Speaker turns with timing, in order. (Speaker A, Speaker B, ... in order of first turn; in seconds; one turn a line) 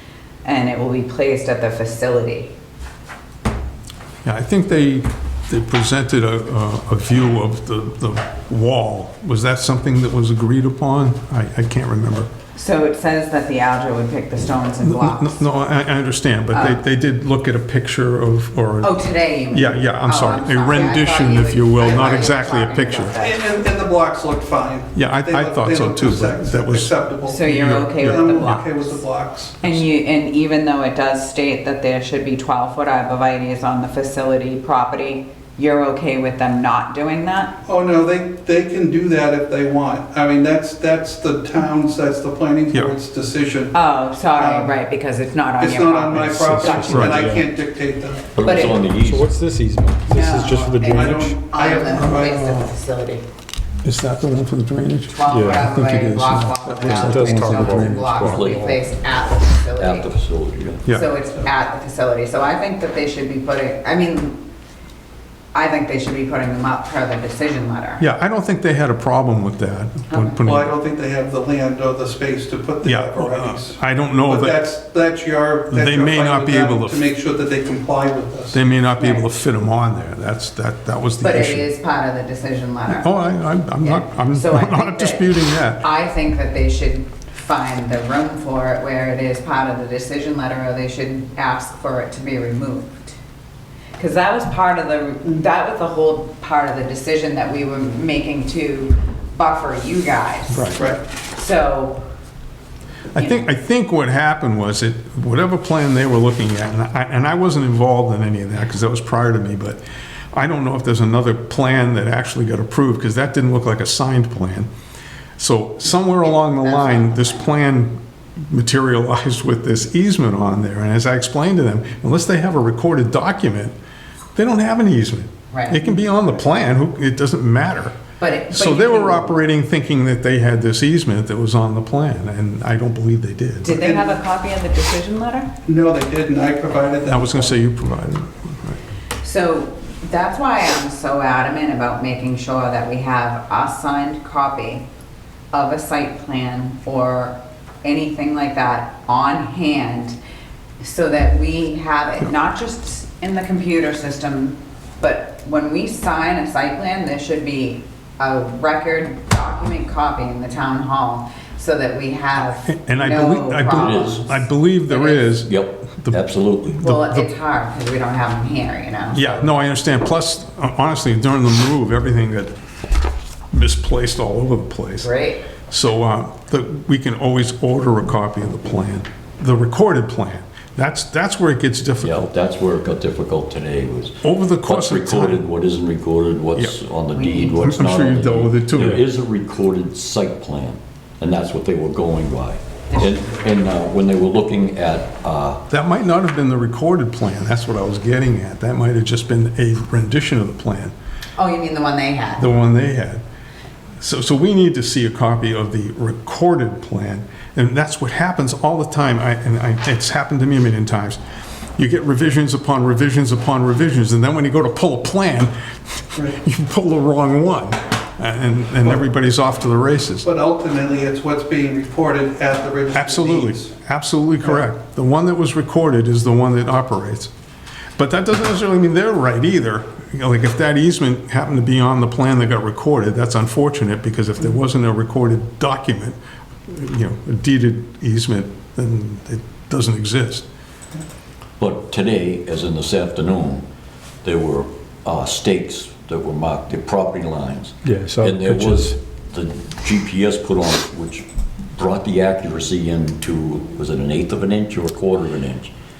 Speaker A: 0.4-2.5
Speaker B: 4.2-12.3
Speaker A: 12.5-15.4
Speaker B: 14.8-19.0
Speaker A: 16.5-16.8
Speaker A: 18.8-23.4
Speaker B: 19.5-23.2
Speaker C: 23.2-29.6
Speaker B: 24.9-28.6
Speaker A: 27.2-29.0
Speaker A: 29.6-37.5
Speaker C: 37.6-43.7
Speaker A: 43.7-47.3
Speaker C: 44.3-44.8
Speaker C: 45.6-48.3
Speaker D: 46.1-47.5
Speaker B: 46.9-47.3
Speaker E: 48.3-49.3
Speaker A: 48.4-48.9
Speaker D: 48.9-51.3
Speaker A: 50.0-53.2
Speaker C: 50.8-52.4
Speaker B: 51.9-52.7
Speaker B: 53.8-58.3
Speaker A: 55.1-60.1
Speaker D: 55.3-55.7
Speaker D: 56.8-58.8
Speaker E: 58.2-58.8
Speaker E: 59.8-60.8
Speaker B: 60.8-61.1
Speaker A: 60.9-64.4
Speaker A: 65.5-68.0
Speaker B: 68.0-70.7
Speaker A: 70.1-70.4
Speaker C: 70.4-78.6
Speaker B: 72.8-74.6
Speaker B: 75.7-77.0
Speaker B: 78.5-81.7
Speaker A: 81.2-93.2
Speaker B: 82.9-85.8
Speaker A: 94.0-102.0
Speaker B: 100.5-100.8
Speaker B: 103.1-109.8
Speaker A: 103.2-103.4
Speaker B: 110.3-114.7
Speaker B: 115.4-117.9
Speaker A: 115.8-117.5
Speaker B: 118.5-123.7
Speaker B: 124.3-128.0
Speaker A: 125.5-125.9
Speaker A: 128.2-129.3
Speaker B: 128.5-133.8
Speaker A: 133.6-135.5
Speaker C: 133.7-134.0
Speaker C: 135.6-137.6
Speaker B: 137.1-138.8
Speaker A: 139.2-144.8
Speaker A: 145.5-150.2
Speaker A: 150.8-165.3
Speaker B: 162.6-167.3
Speaker E: 163.8-164.2
Speaker E: 165.4-166.8
Speaker A: 166.8-169.5
Speaker B: 169.1-172.5
Speaker B: 173.5-175.1
Speaker A: 175.0-175.5
Speaker B: 175.7-182.3
Speaker E: 182.0-195.6
Speaker B: 184.2-185.5
Speaker B: 186.5-186.8
Speaker A: 187.2-187.5
Speaker B: 187.4-189.0
Speaker B: 195.7-200.9
Speaker A: 201.4-202.5
Speaker B: 202.4-203.2
Speaker B: 204.0-211.2
Speaker B: 211.8-220.2
Speaker C: 220.2-223.7
Speaker B: 222.9-227.3
Speaker B: 228.0-240.4
Speaker E: 241.6-243.6
Speaker E: 244.2-255.7
Speaker D: 247.8-248.9